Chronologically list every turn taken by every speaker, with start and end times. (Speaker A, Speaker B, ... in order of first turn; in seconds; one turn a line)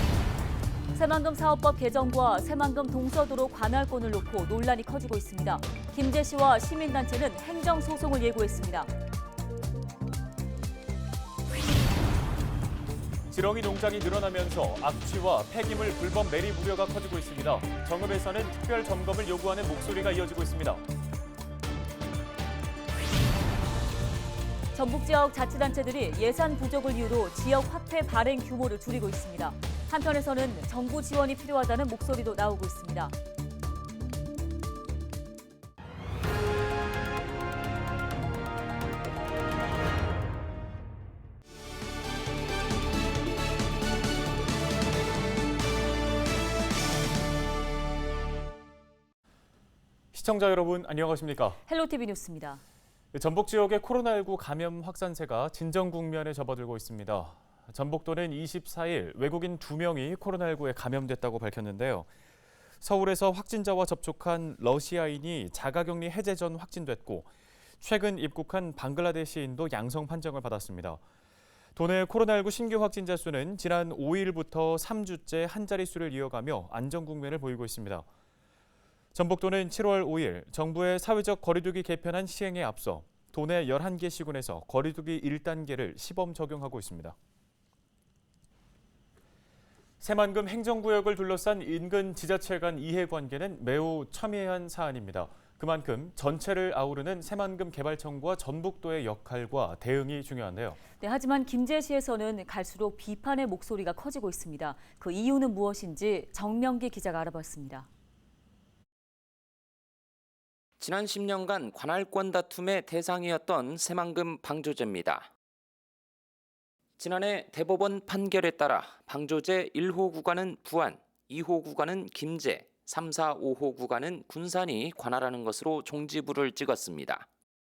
Speaker A: 0.9-8.9
Speaker B: 13.3-20.8
Speaker A: 24.7-33.1
Speaker B: 50.1-51.6
Speaker A: 51.7-52.6
Speaker B: 53.1-62.1
Speaker B: 62.8-71.0
Speaker B: 71.8-78.1
Speaker B: 79.2-87.2
Speaker B: 90.0-100.8
Speaker A: 101.0-107.9
Speaker C: 110.8-115.3
Speaker C: 117.0-127.3